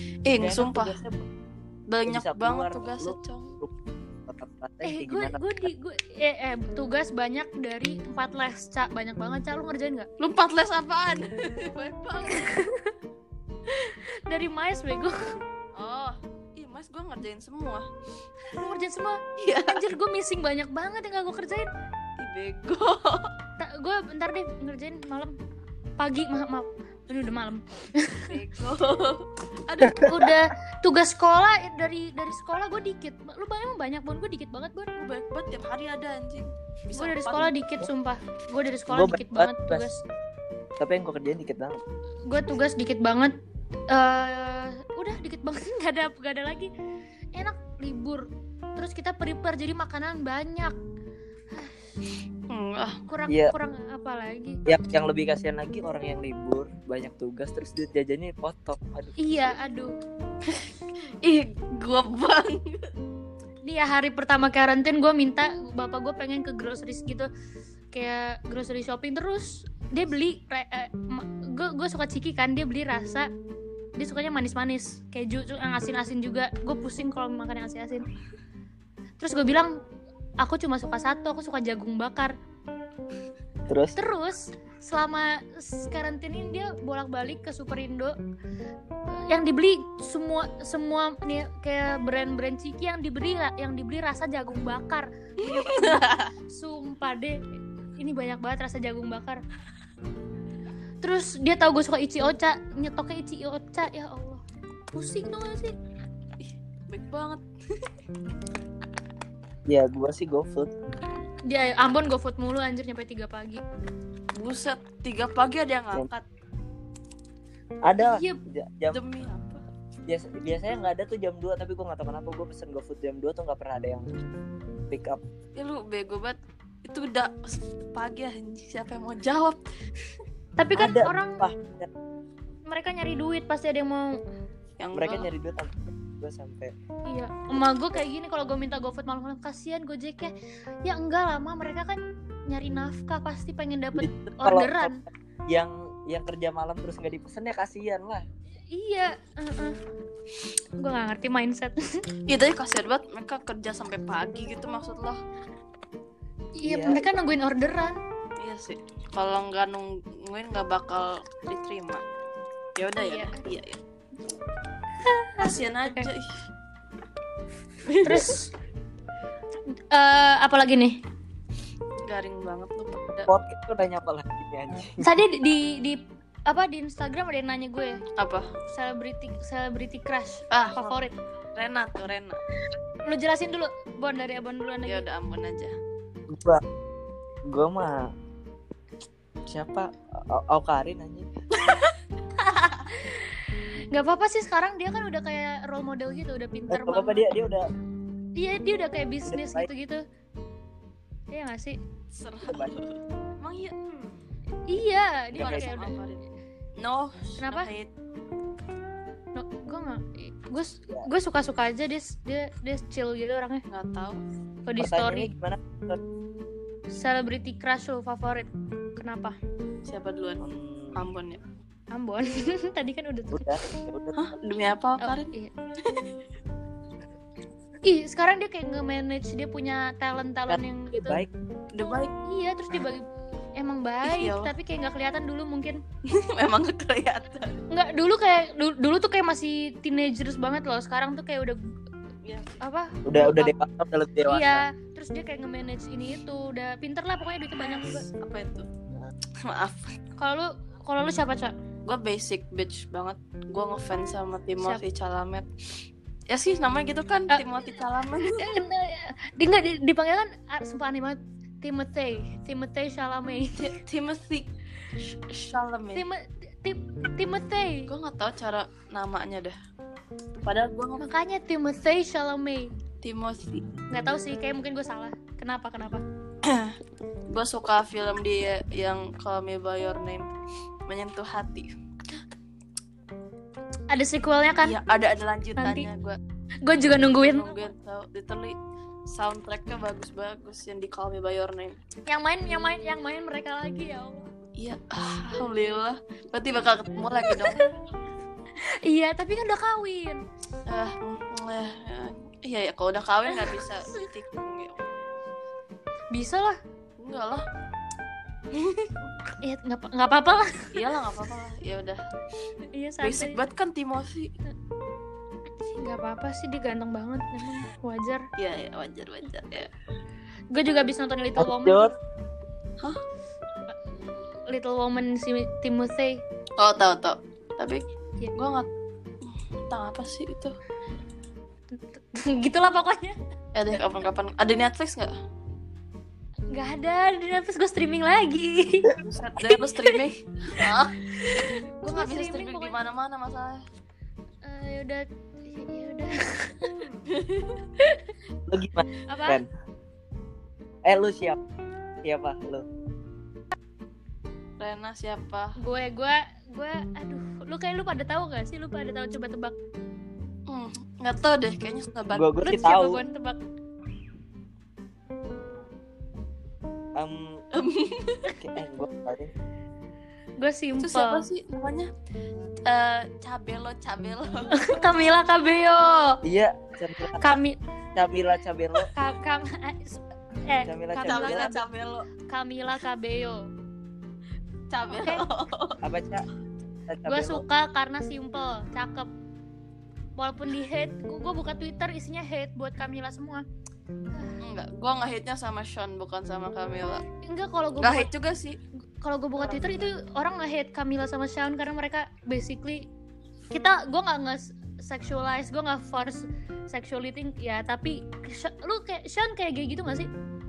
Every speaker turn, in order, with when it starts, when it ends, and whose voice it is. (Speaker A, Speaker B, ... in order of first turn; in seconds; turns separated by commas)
Speaker A: 0.2-1.0, Speaker B: 0.4-1.2, Speaker A: 1.9-3.5, Speaker B: 2.0-3.7, Speaker B: 4.3-5.7, Speaker C: 4.8-10.1, Speaker A: 10.2-12.6, Speaker C: 12.3-12.9, Speaker C: 13.7-15.2, Speaker A: 15.7-17.9, Speaker C: 18.5-21.7, Speaker A: 19.4-19.9, Speaker A: 22.2-23.3, Speaker C: 23.6-25.3, Speaker C: 26.0-28.3, Speaker A: 28.3-30.1, Speaker B: 30.0-30.2, Speaker C: 30.0-34.9, Speaker A: 35.0-37.5, Speaker C: 36.9-40.0, Speaker B: 38.9-39.9, Speaker B: 40.8-41.8, Speaker C: 42.3-43.3, Speaker C: 43.9-46.7, Speaker C: 47.3-48.2, Speaker C: 48.8-50.7, Speaker C: 51.5-51.8, Speaker A: 52.5-53.0, Speaker C: 53.1-54.6, Speaker B: 53.3-53.5, Speaker B: 54.7-59.5, Speaker C: 59.2-59.9, Speaker A: 61.2-62.9, Speaker C: 63.6-67.3, Speaker C: 67.9-73.3, Speaker C: 74.0-78.1, Speaker C: 79.2-79.7, Speaker C: 80.4-82.3, Speaker B: 83.7-84.0, Speaker C: 84.0-88.2, Speaker C: 89.1-97.4, Speaker A: 95.4-96.3, Speaker C: 98.0-99.4, Speaker C: 101.0-105.7, Speaker A: 106.4-107.4, Speaker B: 109.7-110.7, Speaker C: 111.5-113.6, Speaker A: 114.3-116.2, Speaker B: 117.8-119.0, Speaker C: 118.0-118.4, Speaker A: 118.9-119.6, Speaker B: 120.1-124.1, Speaker B: 124.9-125.2, Speaker A: 125.5-129.6, Speaker C: 130.6-131.4, Speaker B: 130.7-131.9, Speaker C: 132.7-134.2, Speaker A: 134.8-135.3, Speaker B: 134.9-136.7, Speaker C: 137.1-140.3, Speaker C: 140.8-145.0, Speaker B: 143.9-148.2, Speaker C: 148.7-149.8, Speaker C: 150.8-151.8, Speaker A: 152.3-155.2, Speaker C: 156.6-158.0, Speaker B: 156.6-157.1, Speaker A: 158.4-162.0, Speaker A: 162.8-163.8, Speaker C: 162.9-163.4, Speaker C: 165.0-166.1, Speaker A: 165.4-166.4, Speaker A: 167.9-168.3, Speaker C: 168.0-168.5, Speaker C: 169.9-171.0, Speaker A: 172.1-173.3, Speaker B: 173.3-175.1, Speaker C: 175.0-178.0, Speaker A: 178.2-178.5, Speaker C: 178.7-181.2, Speaker A: 180.5-181.0, Speaker A: 181.5-182.4, Speaker C: 183.1-185.1, Speaker A: 184.8-185.7, Speaker B: 186.3-186.6, Speaker B: 187.5-188.1, Speaker B: 189.5-191.3, Speaker A: 191.6-191.9, Speaker A: 192.5-192.8, Speaker C: 192.9-193.3, Speaker C: 193.9-197.3, Speaker B: 196.7-197.7, Speaker C: 198.3-200.0, Speaker B: 199.2-199.7, Speaker C: 201.3-201.8, Speaker A: 202.1-203.8, Speaker B: 202.5-202.7, Speaker C: 204.7-205.9, Speaker B: 205.3-205.7, Speaker A: 205.3-206.2, Speaker A: 206.8-207.9, Speaker C: 207.4-207.7, Speaker C: 209.3-213.6, Speaker A: 213.7-214.2, Speaker C: 214.7-215.3, Speaker B: 214.8-216.0, Speaker C: 216.9-219.4, Speaker A: 219.8-220.4, Speaker B: 220.4-221.0, Speaker A: 220.9-221.4, Speaker C: 221.9-223.7, Speaker B: 223.3-224.2, Speaker A: 224.1-226.1, Speaker C: 225.0-225.5, Speaker C: 227.8-231.2, Speaker B: 230.5-231.3, Speaker A: 231.7-232.1, Speaker C: 231.8-235.8, Speaker A: 234.0-234.5, Speaker A: 236.3-237.6, Speaker C: 237.7-241.6, Speaker A: 242.2-242.6, Speaker C: 242.6-243.6, Speaker B: 243.0-244.7, Speaker C: 244.2-248.1, Speaker A: 247.6-248.7, Speaker A: 249.4-249.9, Speaker C: 250.2-251.5, Speaker A: 251.8-255.5, Speaker A: 256.3-258.5, Speaker C: 258.3-263.7, Speaker A: 263.6-264.5, Speaker A: 265.1-266.1, Speaker C: 265.9-267.9, Speaker A: 267.9-269.6, Speaker A: 270.4-271.0, Speaker C: 271.0-272.7, Speaker A: 273.0-273.6, Speaker C: 273.9-276.0, Speaker A: 276.4-276.8, Speaker A: 277.3-280.3, Speaker A: 280.9-281.7, Speaker C: 283.9-284.8, Speaker A: 284.6-286.2, Speaker C: 285.6-285.9, Speaker C: 286.6-287.6, Speaker A: 286.8-288.6, Speaker A: 289.1-291.8, Speaker C: 292.1-294.3, Speaker A: 294.6-297.6, Speaker C: 297.2-297.7, Speaker C: 298.6-300.2, Speaker A: 300.7-304.9, Speaker C: 303.3-304.0, Speaker C: 306.1-306.6, Speaker A: 307.0-307.4, Speaker A: 308.5-308.9, Speaker C: 309.4-310.7, Speaker A: 310.7-312.0, Speaker C: 312.7-313.4, Speaker A: 313.0-314.3, Speaker C: 315.7-318.2, Speaker A: 318.4-319.7, Speaker C: 320.5-321.9, Speaker B: 321.4-321.9, Speaker C: 324.5-326.2, Speaker A: 326.6-327.8, Speaker A: 328.4-328.7, Speaker A: 329.2-330.5, Speaker C: 331.7-333.1, Speaker A: 333.5-335.1, Speaker C: 336.5-338.9, Speaker A: 339.0-341.0, Speaker C: 341.1-342.8, Speaker A: 341.8-343.6, Speaker C: 344.4-346.8, Speaker A: 346.9-347.6, Speaker C: 347.8-348.1, Speaker B: 348.5-349.5, Speaker C: 349.1-349.4, Speaker B: 350.8-351.4, Speaker B: 352.0-352.6, Speaker A: 354.6-355.6, Speaker C: 355.6-359.5, Speaker A: 360.5-362.4, Speaker B: 362.1-363.0, Speaker C: 362.4-363.4, Speaker B: 367.0-367.4, Speaker A: 367.6-368.3, Speaker B: 368.4-369.3, Speaker C: 370.4-371.3, Speaker A: 370.8-371.9, Speaker A: 372.6-374.9, Speaker C: 374.5-376.2, Speaker B: 376.2-377.4, Speaker C: 377.2-377.6, Speaker B: 377.9-378.9, Speaker C: 378.9-381.6, Speaker B: 380.6-381.6, Speaker A: 381.0-382.1, Speaker C: 382.3-383.4, Speaker A: 384.7-385.8, Speaker C: 384.9-385.2, Speaker B: 385.8-386.2, Speaker B: 386.9-387.4, Speaker C: 387.1-389.1, Speaker C: 390.2-393.4, Speaker C: 394.1-394.4, Speaker A: 394.4-397.0, Speaker C: 397.2-398.1, Speaker A: 397.8-398.6, Speaker C: 399.0-402.9, Speaker A: 399.4-399.8, Speaker C: 403.5-410.1